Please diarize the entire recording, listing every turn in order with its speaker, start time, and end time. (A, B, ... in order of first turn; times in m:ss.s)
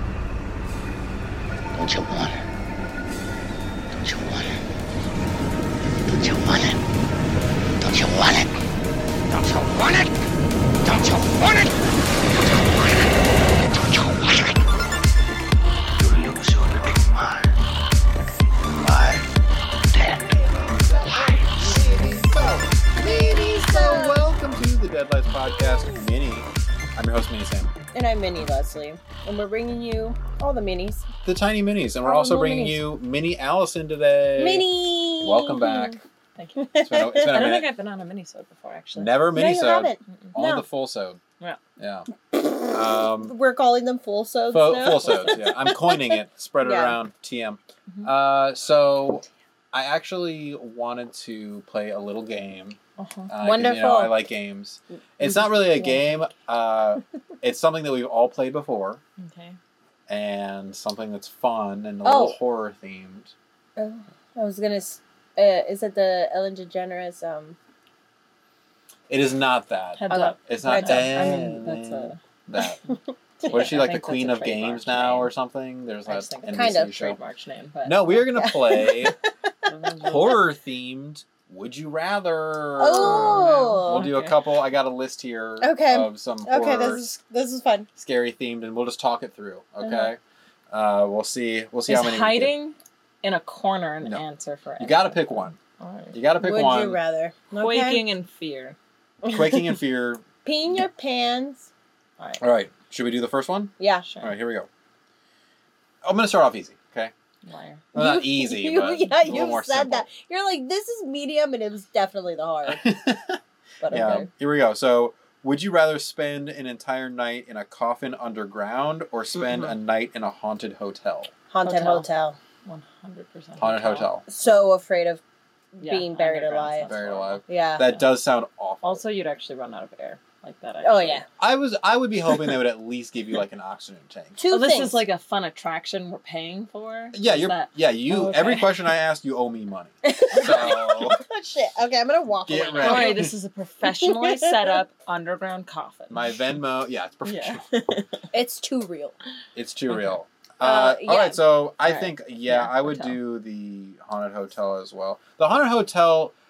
0:01.8-0:02.4 A
0:04.0-0:04.6 A
0:06.1-0:06.8 A
0:07.8-0:08.6 A
0:09.3-0:10.2 A
0:10.8-0:11.7 A
0:14.2-0:14.5 A
0:16.0-0:17.6 A
0:18.8-0:19.3 A
0:19.9-0:20.2 A
0:20.8-0:27.7 B
0:22.9-0:24.2 C
0:27.9-0:31.1 C
0:31.2-0:34.7 B
0:32.0-0:32.8 C
0:34.4-0:35.7 C
0:35.2-0:36.0 B
0:36.4-0:36.7 D
0:36.6-0:37.4 C
0:36.8-0:37.7 B
0:37.3-0:39.2 D
0:39.0-0:41.2 B
0:39.4-0:40.7 C
0:41.8-0:42.1 B
0:42.3-0:47.0 C
0:42.7-0:43.3 B
0:44.5-0:52.8 B
0:45.0-0:45.4 D
0:53.0-0:53.3 D
0:53.3-0:59.0 B
0:53.4-0:54.2 C
0:55.2-0:56.3 D
0:59.2-0:59.6 D
1:00.1-1:03.3 B
1:02.0-1:02.4 C
1:03.8-1:07.6 C
1:09.1-1:12.8 B
1:10.0-1:12.2 D
1:10.1-1:11.4 C
1:12.9-1:13.5 C
1:13.4-1:15.3 D
1:13.5-1:17.2 B
1:16.1-1:18.3 D
1:16.5-1:17.0 C
1:17.8-1:19.2 B
1:18.3-1:19.7 C
1:19.7-1:20.4 D
1:20.0-1:27.1 B
1:22.8-1:24.1 C
1:23.0-1:24.4 D
1:25.6-1:27.9 C
1:28.0-1:30.2 B
1:30.7-1:32.6 B
1:31.9-1:36.2 D
1:34.8-1:35.6 B
1:36.1-1:37.0 B
1:36.4-1:38.1 C
1:37.5-1:38.8 D
1:39.2-1:39.7 C
1:39.3-1:40.2 B
1:40.4-1:41.7 C
1:42.4-1:44.7 B
1:43.8-1:44.1 C
1:44.1-1:44.3 D
1:46.0-1:47.1 B
1:47.4-1:47.8 D
1:47.9-1:52.9 C
1:48.0-1:50.1 B
1:49.2-1:49.5 D
1:52.7-2:01.3 B
1:53.8-1:54.3 C
1:53.9-1:54.2 D
2:01.5-2:02.4 C
2:01.6-2:02.1 D
2:02.6-2:04.1 D
2:03.6-2:04.2 B
2:04.3-2:05.2 C
2:05.7-2:07.0 C
2:05.8-2:07.4 D
2:06.8-2:09.0 B
2:07.5-2:07.9 C
2:08.8-2:11.2 D
2:10.8-2:11.3 C
2:11.4-2:14.4 B
2:12.3-2:12.6 C
2:14.4-2:15.0 C
2:14.5-2:18.9 D
2:17.1-2:21.2 B
2:20.0-2:23.3 C
2:20.3-2:21.0 D
2:22.5-2:23.3 B
2:22.8-2:26.5 D
2:23.8-2:24.6 C
2:26.1-2:27.6 B
2:27.2-2:28.2 D
2:28.3-2:29.2 C
2:29.6-2:36.3 B
2:29.9-2:30.2 D
2:30.6-2:31.4 C
2:31.8-2:33.2 D